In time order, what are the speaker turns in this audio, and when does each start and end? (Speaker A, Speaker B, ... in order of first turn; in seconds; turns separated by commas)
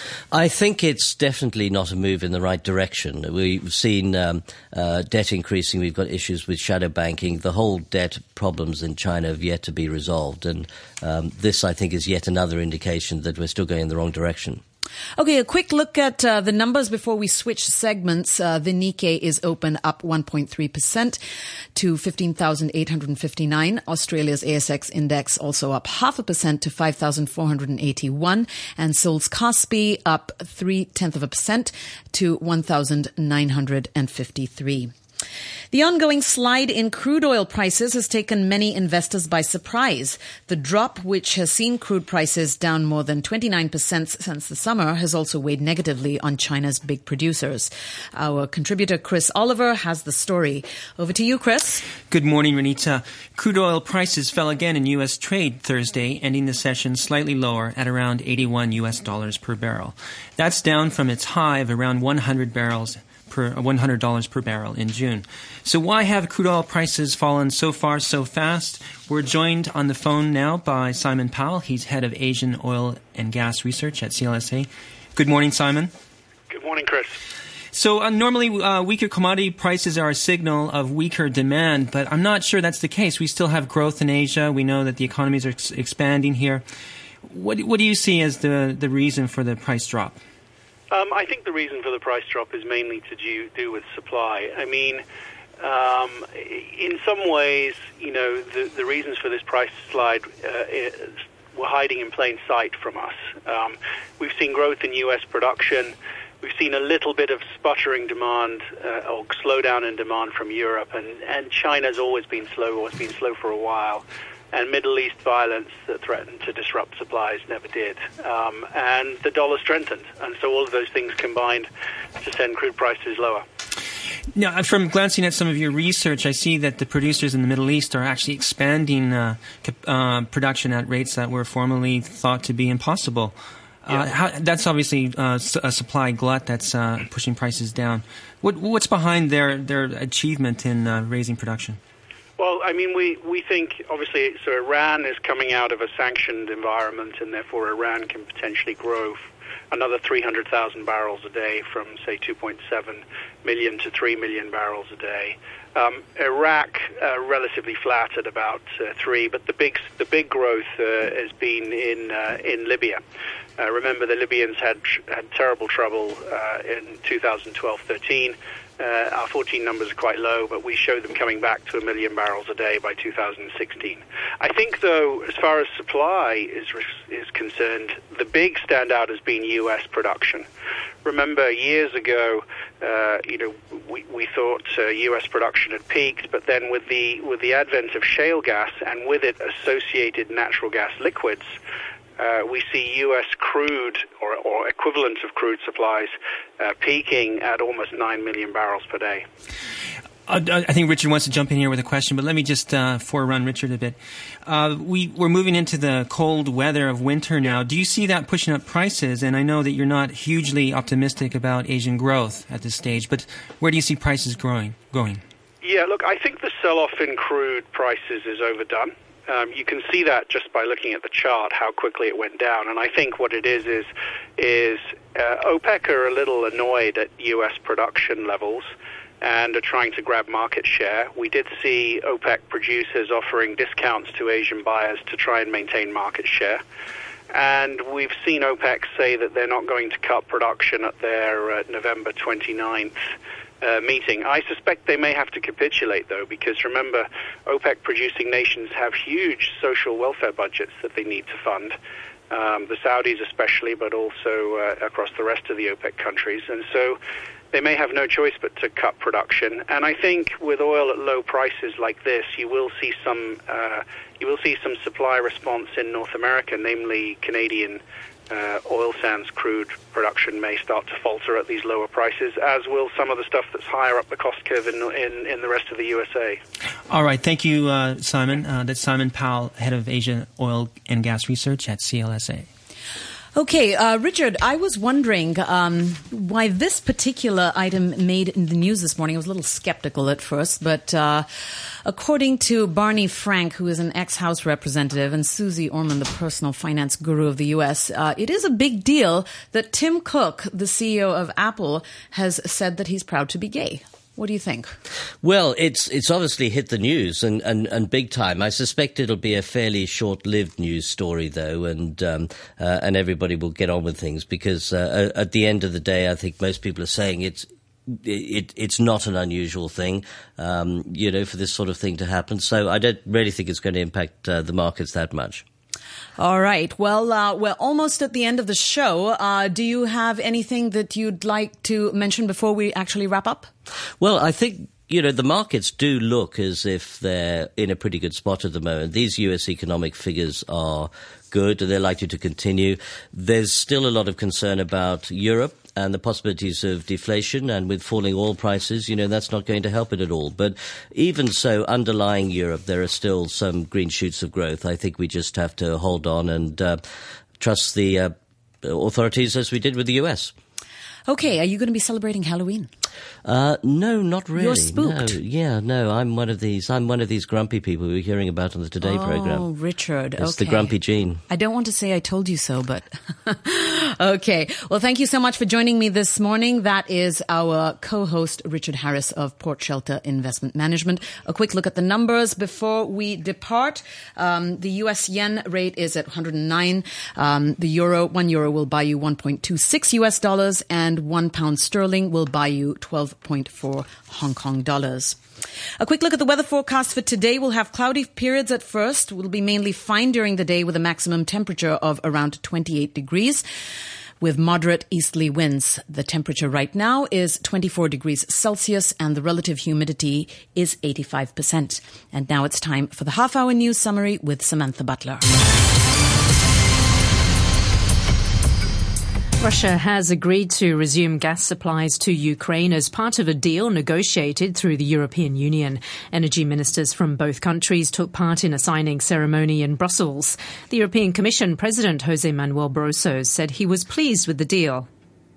Speaker A: 0.3-14.6, Speaker B: 15.2-21.2, Speaker B: 21.7-34.9, Speaker B: 35.7-51.8, Speaker C: 52.1-75.9, Speaker D: 76.5-77.2, Speaker C: 77.7-86.6, Speaker C: 87.2-90.2, Speaker D: 90.9-95.0, Speaker D: 95.6-121.7, Speaker D: 122.2-123.4, Speaker C: 124.3-141.8, Speaker D: 142.4-163.0, Speaker D: 163.6-180.5, Speaker D: 181.0-191.5, Speaker D: 192.2-199.2, Speaker C: 200.3-215.2, Speaker D: 215.6-236.6, Speaker D: 237.3-243.0, Speaker D: 243.6-251.8, Speaker D: 252.3-257.0, Speaker D: 257.5-276.4, Speaker C: 276.9-282.5, Speaker B: 283.3-291.3, Speaker B: 291.8-304.7, Speaker A: 305.2-325.4, Speaker B: 326.2-333.5, Speaker A: 334.0-356.8, Speaker A: 357.4-358.1, Speaker A: 358.6-360.3, Speaker B: 361.1-362.7, Speaker A: 363.2-369.5, Speaker B: 364.4-365.2, Speaker B: 368.8-370.8, Speaker A: 370.2-371.2, Speaker B: 371.3-395.2, Speaker B: 395.8-403.4, Speaker B: 404.2-415.2, Speaker E: 419.4-434.9